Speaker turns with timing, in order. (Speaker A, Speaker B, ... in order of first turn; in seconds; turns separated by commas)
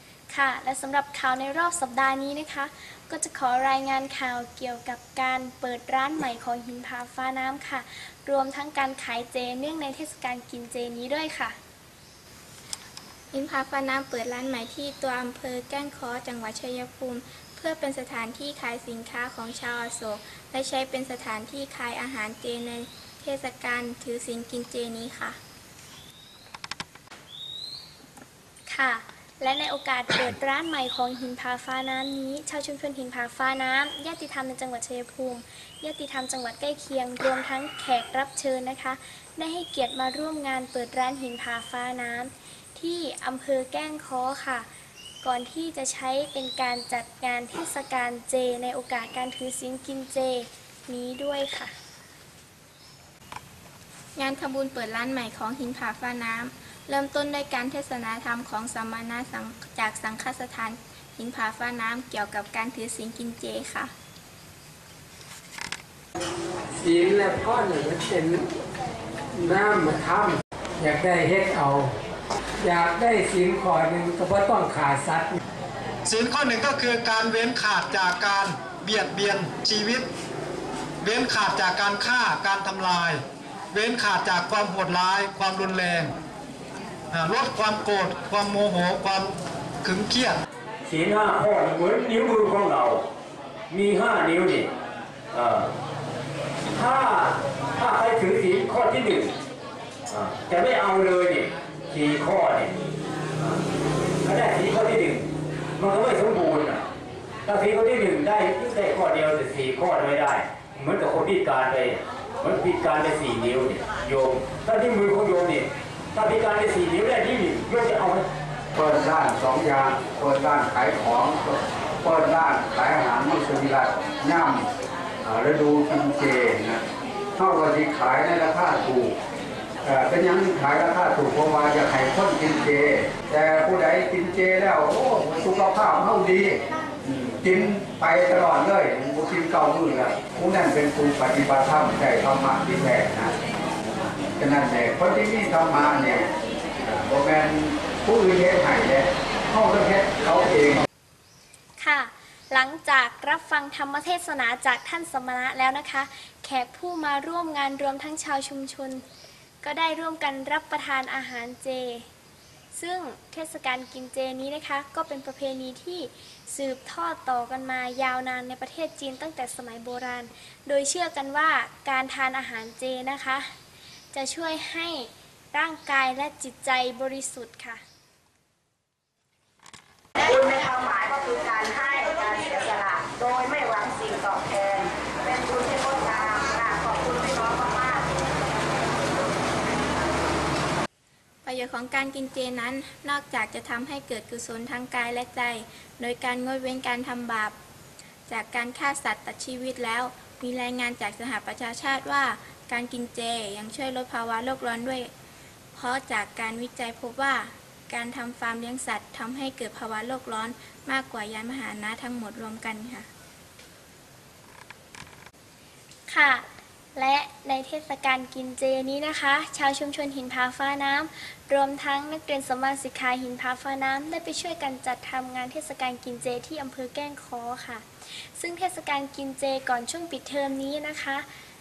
Speaker A: 0.3-11.6, Speaker B: 13.3-25.4, Speaker A: 28.7-44.7, Speaker A: 45.2-51.7, Speaker B: 54.1-63.9, Speaker C: 66.8-68.4, Speaker C: 69.3-71.9, Speaker C: 72.6-75.4, Speaker D: 76.0-80.1, Speaker D: 81.0-86.1, Speaker D: 87.1-90.4, Speaker E: 90.8-93.0, Speaker E: 93.7-94.7, Speaker E: 95.3-95.7, Speaker E: 96.7-99.3, Speaker E: 100.1-102.8, Speaker E: 103.3-103.6, Speaker E: 104.2-106.8, Speaker E: 107.4-118.2, Speaker F: 118.7-124.7, Speaker F: 125.2-126.8, Speaker F: 127.3-129.2, Speaker F: 129.8-143.3, Speaker F: 144.4-146.3, Speaker F: 146.8-150.8, Speaker A: 151.8-159.0, Speaker A: 159.6-162.1, Speaker A: 162.7-173.5, Speaker A: 174.1-177.8, Speaker G: 180.2-188.1, Speaker G: 189.1-189.3, Speaker B: 191.4-197.6, Speaker B: 198.3-205.1, Speaker B: 205.7-213.1, Speaker A: 216.1-231.2